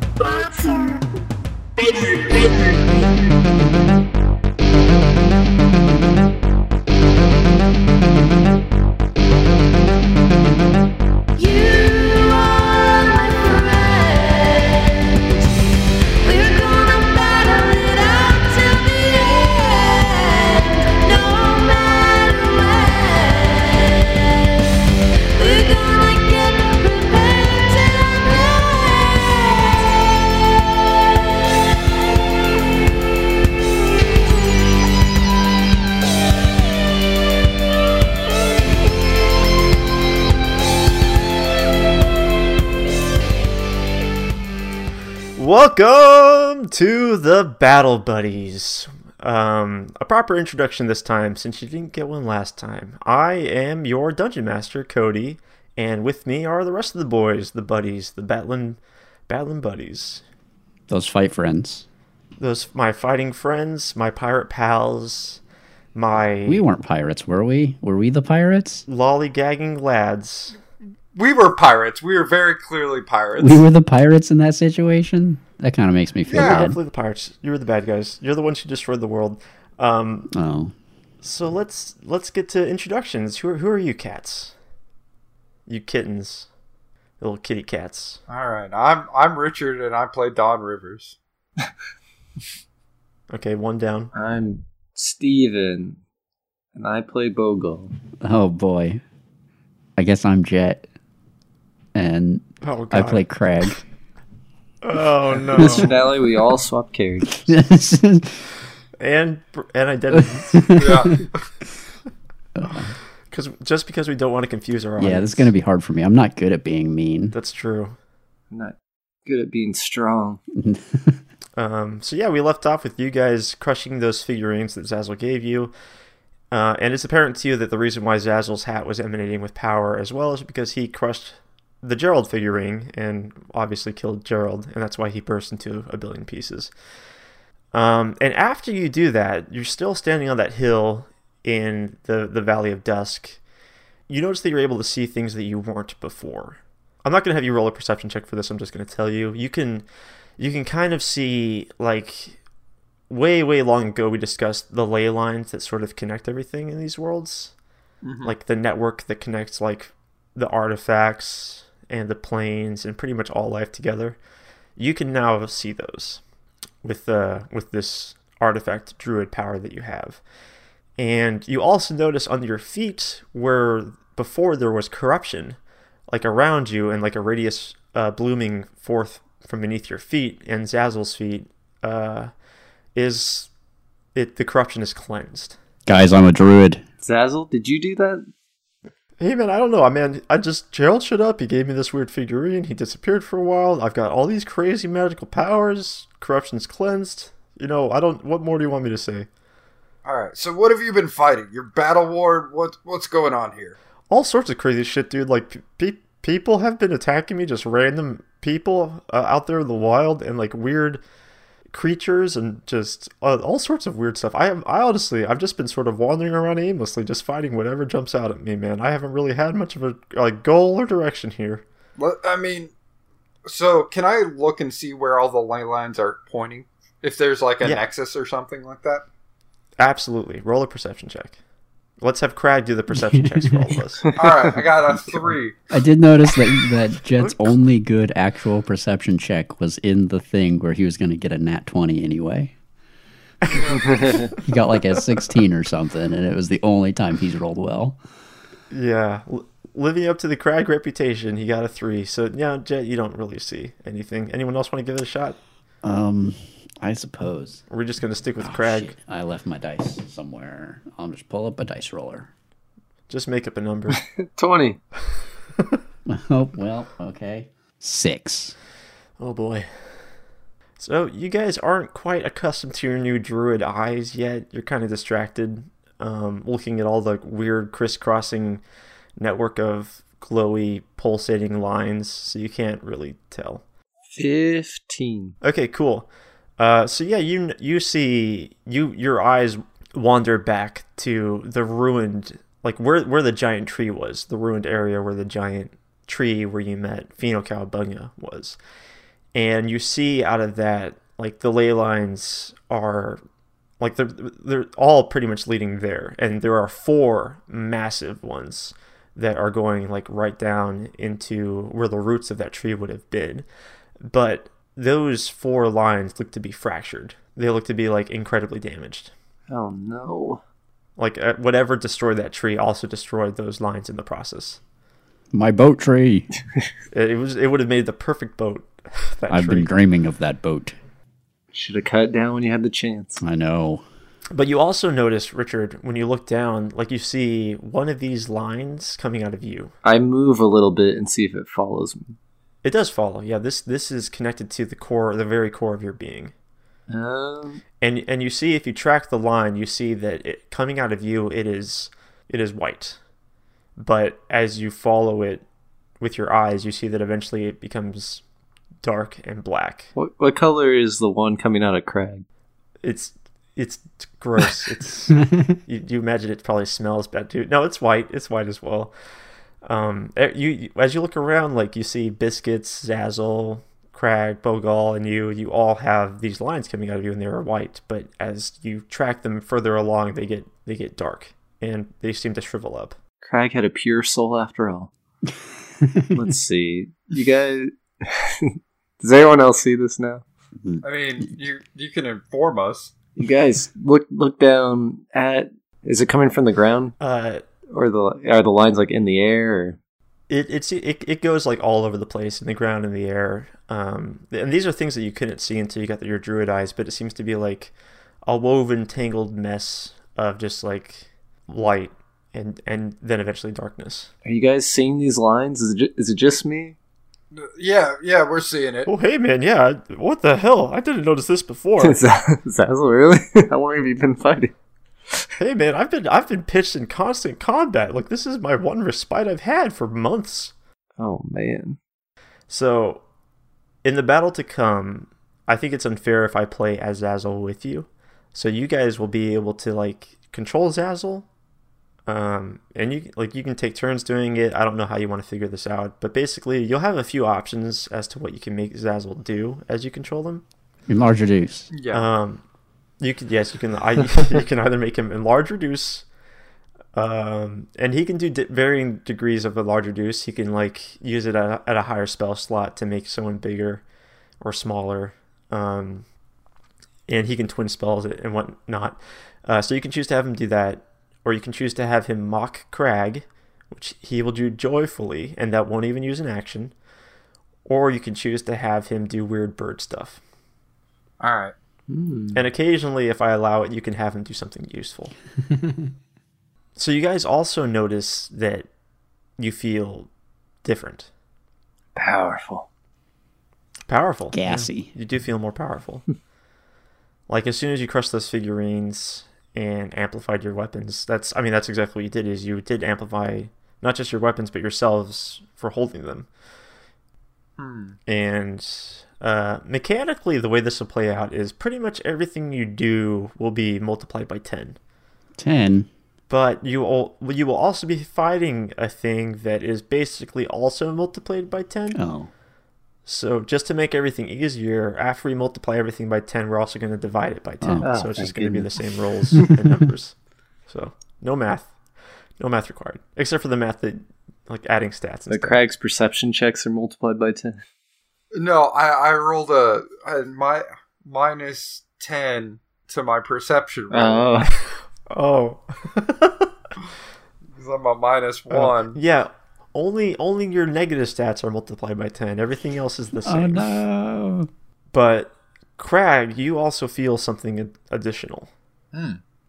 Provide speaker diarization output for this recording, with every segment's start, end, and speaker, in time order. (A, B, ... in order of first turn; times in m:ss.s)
0:00.2-0:01.0 A
0:01.8-0:03.2 A
0:11.4-0:15.5 A
0:16.2-0:24.6 A
0:25.3-0:30.0 A
0:45.4-1:00.2 B
1:00.9-1:01.9 C
1:02.4-1:05.4 B
1:06.0-1:06.6 B
1:06.5-1:08.8 C
1:08.9-1:10.6 B
1:11.1-1:13.6 D
1:13.4-1:16.8 C
1:16.3-1:16.7 D
1:16.3-1:20.3 B
1:20.3-1:20.7 C
1:21.2-1:24.5 B
1:25.7-1:26.5 B
1:27.2-1:28.2 B
1:28.3-1:31.6 D
1:33.3-1:34.1 B
1:34.1-1:36.0 E
1:36.8-1:37.9 E
1:38.2-1:39.0 C
1:40.0-1:40.8 C
1:42.0-1:43.8 C
1:42.6-1:43.3 B
1:44.8-1:45.9 B
1:45.5-1:46.0 C
1:45.6-1:47.5 E
1:47.4-1:48.4 C
1:49.0-1:50.7 B
1:50.2-1:51.1 C
1:50.8-1:51.3 D
1:52.6-1:52.9 C
1:53.3-1:55.5 B
1:55.0-1:57.4 C
1:57.3-1:58.0 B
1:58.5-2:00.4 E
2:00.6-2:01.2 C
2:01.6-2:05.7 B
2:06.5-2:16.7 B
2:17.7-2:23.4 B
2:24.1-2:29.8 B
2:30.4-2:32.4 B
2:33.1-2:37.5 B
2:38.0-2:38.3 D
2:38.2-2:44.2 B
2:44.8-2:46.2 B
2:46.8-2:50.2 B
2:51.0-2:55.6 B
2:56.1-3:02.3 B
3:03.0-3:03.5 B
3:04.2-3:05.6 B
3:05.9-3:06.8 C
3:07.0-3:08.2 E
3:09.2-3:19.3 B
3:20.0-3:23.8 D
3:24.1-3:31.0 B
3:31.7-3:41.6 B
3:42.0-3:42.7 D
3:43.5-3:49.0 D
3:47.6-3:47.9 B
3:49.8-3:51.4 B
3:52.0-3:54.1 B
3:52.9-3:53.8 C
3:54.2-3:55.6 D
3:55.7-4:02.5 C
3:57.2-3:57.6 B
4:03.4-4:03.8 B
4:03.5-4:04.2 D
4:03.9-4:04.3 E
4:04.4-4:08.0 C
4:08.7-4:15.4 B
4:15.8-4:17.6 C
4:17.7-4:19.0 B
4:18.4-4:22.3 C
4:23.1-4:24.0 B
4:24.2-4:24.8 E
4:26.1-4:28.6 C
4:29.2-4:29.7 B
4:30.8-4:38.6 B
4:39.2-4:43.6 B
4:44.2-4:45.4 E
4:45.4-4:58.6 B
4:59.4-5:03.2 B
5:03.8-5:13.4 B
5:14.0-5:19.1 B
5:19.5-5:20.4 E
5:21.0-5:24.6 B
5:25.3-5:26.3 C
5:26.9-5:29.7 B
5:29.3-5:30.8 C
5:31.5-5:33.2 E
5:33.2-5:33.8 C
5:34.3-5:39.7 B
5:39.8-5:42.2 E
5:42.6-5:46.3 B
5:46.9-5:47.6 E
5:47.8-5:53.0 B
5:53.8-5:55.4 B
5:56.0-5:58.2 B
5:58.8-5:59.9 B
6:00.0-6:02.2 E
6:02.8-6:08.9 B
6:09.6-6:23.0 B
6:23.2-6:24.9 E
6:25.8-6:26.3 C
6:26.1-6:30.2 E
6:30.8-6:32.9 D
6:33.2-6:37.0 E
6:37.0-6:37.4 B
6:37.7-6:39.8 E
6:40.3-6:47.7 B
6:48.2-6:54.1 B
6:54.2-6:56.8 E
6:57.3-6:58.9 D
6:58.9-7:02.0 B
7:01.8-7:04.5 E
7:05.4-7:10.5 B
7:11.0-7:11.8 E
7:12.5-7:13.0 B
7:13.8-7:21.3 B
7:22.1-7:30.4 B
7:30.9-7:31.7 C
7:31.7-7:32.1 D
7:31.9-7:32.4 B
7:33.0-7:36.1 B
7:36.9-7:43.8 B
7:44.4-7:46.1 B
7:47.1-7:56.7 B
7:57.7-8:00.2 B
8:01.2-8:01.5 D
8:01.9-8:02.4 E
8:02.3-8:05.1 B
8:06.8-8:08.7 B
8:09.4-8:10.1 B
8:10.6-8:11.1 B
8:12.0-8:12.7 E
8:13.9-8:16.0 B
8:14.3-8:14.9 C
8:17.3-8:26.3 B
8:27.6-8:28.0 D
8:28.1-8:34.8 B
8:35.4-8:35.9 C
8:36.3-8:42.0 B
8:41.9-8:42.3 C
8:43.1-8:50.2 B
8:47.6-8:47.9 C
8:47.8-8:49.5 E
8:50.7-8:51.7 B
8:52.4-8:55.6 B
8:55.3-8:57.6 E
8:58.3-9:04.5 D
9:03.9-9:04.5 E
9:05.1-9:06.5 B
9:07.5-9:09.0 D
9:08.5-9:13.8 B
9:13.2-9:14.5 C
9:14.9-9:18.5 B
9:18.9-9:19.2 D